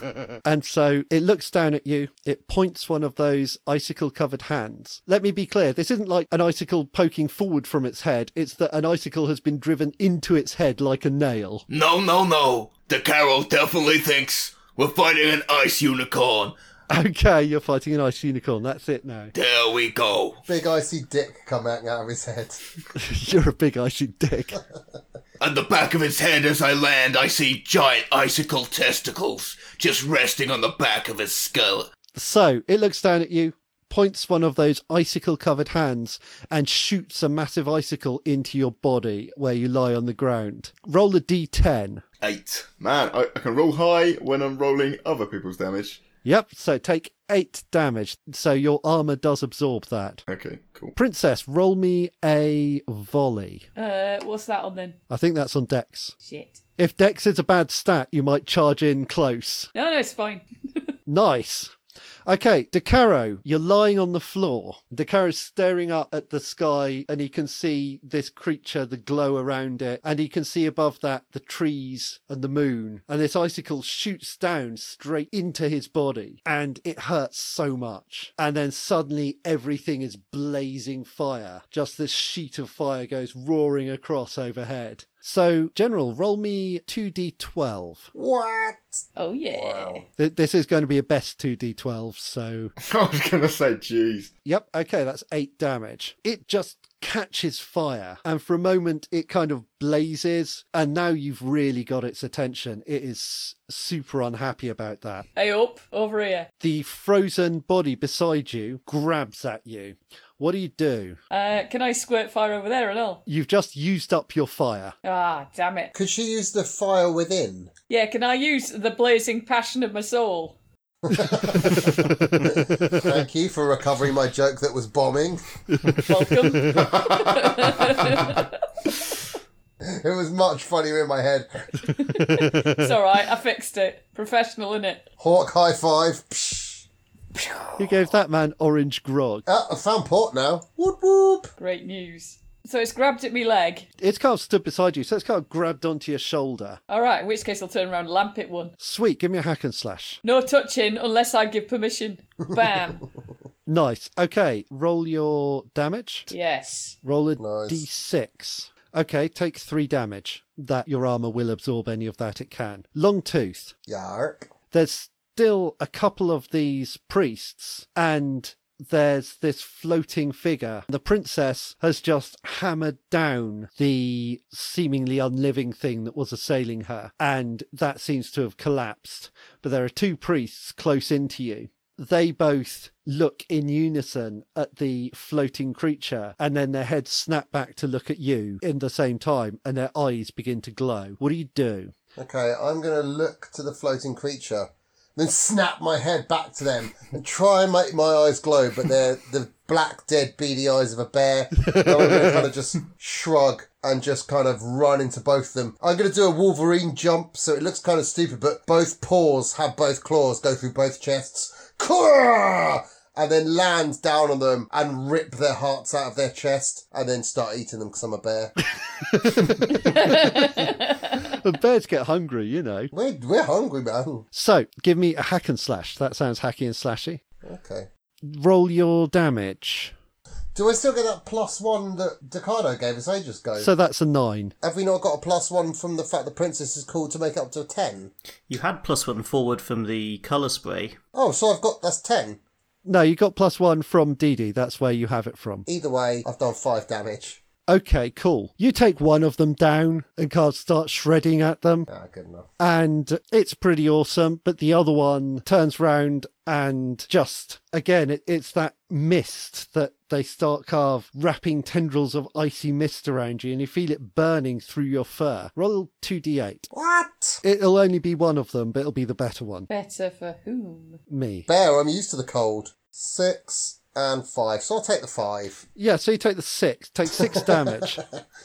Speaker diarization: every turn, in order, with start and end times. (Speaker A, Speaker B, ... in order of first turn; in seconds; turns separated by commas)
Speaker A: 0.5-11.7, Speaker B: 11.7-16.6, Speaker A: 16.9-19.3, Speaker B: 19.4-20.4, Speaker C: 20.5-22.6, Speaker A: 23.0-24.6, Speaker B: 25.4-31.9, Speaker A: 32.1-42.0, Speaker D: 42.2-46.0, Speaker A: 46.2-50.2, Speaker D: 50.3-51.0, Speaker A: 51.0-53.6, Speaker E: 53.8-55.0, Speaker A: 55.1-56.1, Speaker E: 56.2-56.6, Speaker A: 56.8-59.7, Speaker E: 59.8-60.5, Speaker A: 61.1-61.7, Speaker A: 62.3-88.1, Speaker C: 88.2-90.0, Speaker E: 89.2-90.0, Speaker A: 90.2-92.7, Speaker D: 92.8-94.3, Speaker A: 94.5-105.3, Speaker E: 105.4-106.5, Speaker A: 106.6-111.2, Speaker E: 111.3-113.2, Speaker A: 113.3-114.9, Speaker E: 115.0-115.9, Speaker C: 115.9-117.7, Speaker E: 117.9-120.6, Speaker C: 121.1-121.9, Speaker A: 121.2-123.1, Speaker C: 122.4-125.5, Speaker A: 125.7-126.9, Speaker E: 126.0-128.6, Speaker C: 129.8-131.7, Speaker A: 131.9-132.9, Speaker E: 131.9-135.1, Speaker C: 135.2-136.8, Speaker C: 137.4-137.7, Speaker A: 137.8-139.4, Speaker C: 139.5-141.5, Speaker E: 141.6-143.9, Speaker A: 144.0-146.8, Speaker E: 146.9-148.7, Speaker A: 148.8-150.2, Speaker E: 150.2-153.1, Speaker A: 153.7-156.3, Speaker E: 156.3-157.0, Speaker A: 157.0-163.7, Speaker C: 157.4-157.8, Speaker C: 163.9-164.5, Speaker A: 164.7-191.9, Speaker C: 192.2-218.6, Speaker A: 201.7-202.4, Speaker A: 219.0-222.9, Speaker E: 219.9-221.2, Speaker C: 222.9-224.2, Speaker A: 224.3-227.2, Speaker C: 227.4-227.9, Speaker A: 228.2-229.9, Speaker C: 230.6-233.7, Speaker A: 233.6-234.5, Speaker C: 234.6-238.1, Speaker F: 238.5-241.0, Speaker C: 241.1-242.4, Speaker A: 242.8-245.7, Speaker C: 245.7-247.4, Speaker A: 247.7-251.9, Speaker C: 251.9-252.5, Speaker A: 252.6-266.7, Speaker C: 266.7-267.4, Speaker A: 267.4-269.7, Speaker E: 269.7-271.0, Speaker A: 271.1-271.5, Speaker C: 271.5-275.7, Speaker A: 275.8-278.0, Speaker C: 277.3-277.8